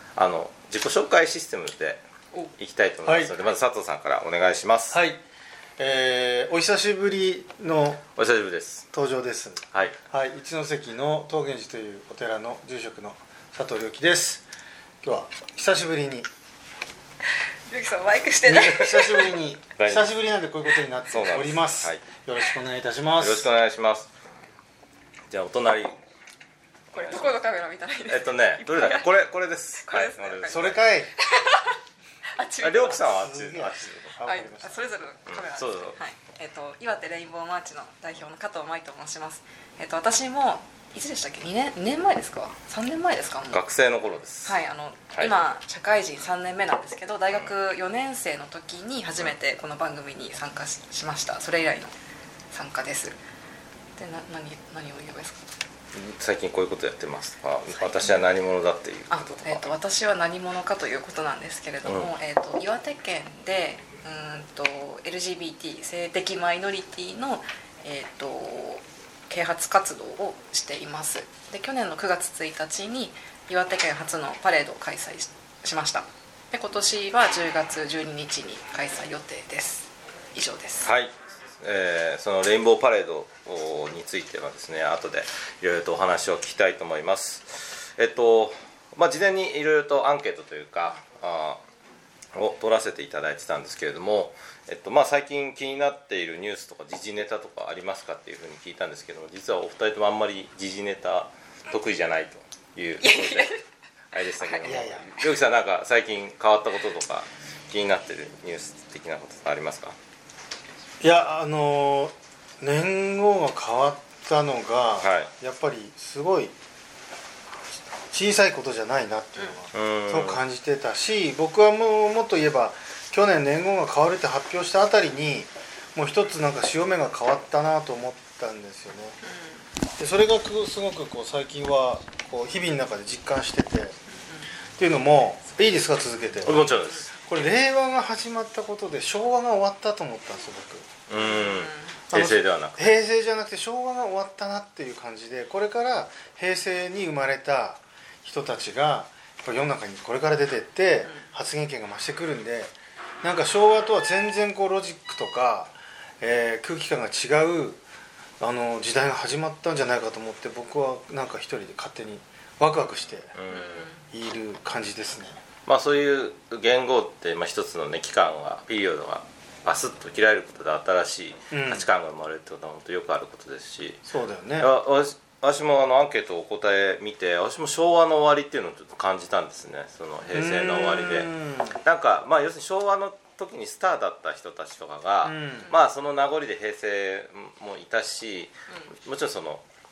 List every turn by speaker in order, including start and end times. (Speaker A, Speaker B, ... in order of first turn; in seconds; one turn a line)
Speaker A: 0.2-2.0
Speaker A: 2.6-5.0
Speaker B: 3.0-3.3
Speaker B: 4.9-5.2
Speaker B: 5.8-8.0
Speaker A: 8.2-8.9
Speaker B: 8.9-14.4
Speaker A: 9.7-10.0
Speaker B: 15.0-16.3
Speaker C: 17.7-19.3
Speaker A: 18.4-20.1
Speaker B: 18.5-23.5
Speaker A: 21.1-22.1
Speaker A: 23.2-24.1
Speaker A: 25.3-26.0
Speaker C: 26.9-29.1
Speaker A: 27.0-27.4
Speaker A: 28.1-30.8
Speaker C: 29.8-31.8
Speaker B: 30.5-31.1
Speaker C: 32.4-33.1
Speaker A: 32.6-34.1
Speaker B: 33.0-34.9
Speaker C: 34.2-43.6
Speaker A: 35.3-36.0
Speaker A: 43.5-44.6
Speaker C: 44.5-51.9
Speaker C: 52.5-53.2
Speaker C: 54.0-55.4
Speaker A: 55.9-59.6
Speaker C: 57.7-58.2
Speaker C: 59.1-80.9
Speaker A: 61.9-62.1
Speaker A: 80.8-91.6
Speaker A: 92.3-103.6
Speaker C: 103.0-103.6
Speaker A: 104.1-110.0
Speaker C: 104.3-104.7
Speaker B: 104.6-105.1
Speaker B: 111.0-116.5
Speaker A: 115.0-115.3
Speaker B: 118.1-129.2
Speaker A: 119.7-120.4
Speaker C: 129.2-129.7
Speaker B: 130.0-134.0
Speaker C: 134.1-134.5
Speaker B: 134.8-141.0
Speaker A: 136.4-137.1
Speaker C: 136.8-137.1
Speaker A: 141.1-143.0
Speaker C: 141.2-142.0
Speaker B: 142.1-157.8
Speaker B: 158.4-163.3
Speaker A: 163.3-163.9
Speaker C: 163.5-164.0
Speaker B: 164.1-165.4
Speaker A: 165.7-174.1
Speaker B: 171.5-171.9
Speaker B: 174.1-174.7
Speaker A: 174.6-188.5
Speaker B: 180.3-181.8
Speaker B: 185.2-185.7
Speaker A: 189.1-189.6